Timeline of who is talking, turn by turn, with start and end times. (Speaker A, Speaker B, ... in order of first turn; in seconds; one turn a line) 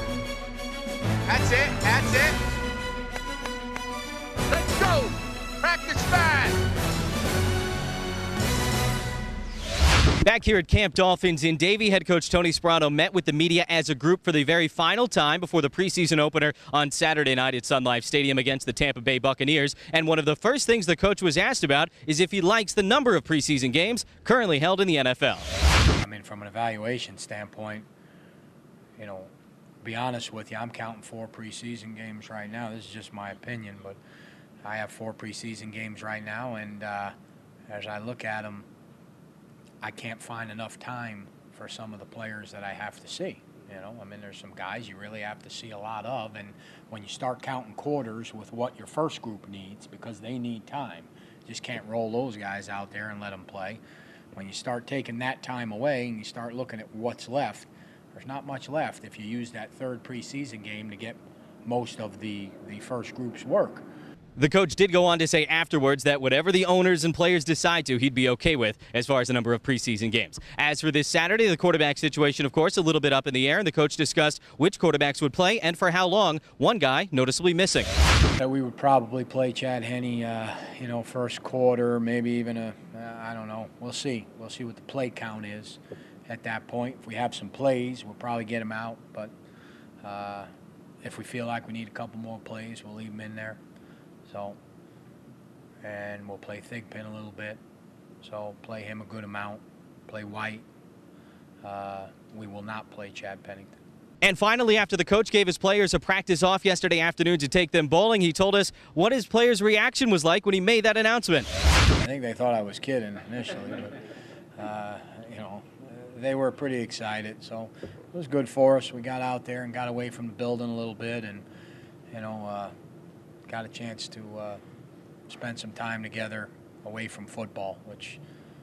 Speaker A: 1.2-2.4
Speaker A: 4.5-6.6
Speaker B: 10.2-25.5
Speaker C: 26.0-27.9
Speaker C: 28.9-29.3
Speaker C: 29.8-34.0
Speaker C: 34.6-37.1
Speaker C: 37.7-38.7
Speaker C: 39.8-53.8
Speaker C: 54.3-63.8
Speaker B: 64.3-77.9
Speaker C: 78.3-89.3
Speaker C: 90.0-90.5
Speaker C: 91.0-93.6
Speaker C: 94.2-94.6
Speaker C: 95.8-97.6
Speaker C: 98.2-100.6
Speaker C: 101.6-103.7
Speaker B: 104.2-111.5
Speaker C: 112.0-114.0
Speaker C: 114.6-121.4
Speaker C: 122.1-122.7
Speaker C: 123.5-124.6
Speaker C: 125.3-128.2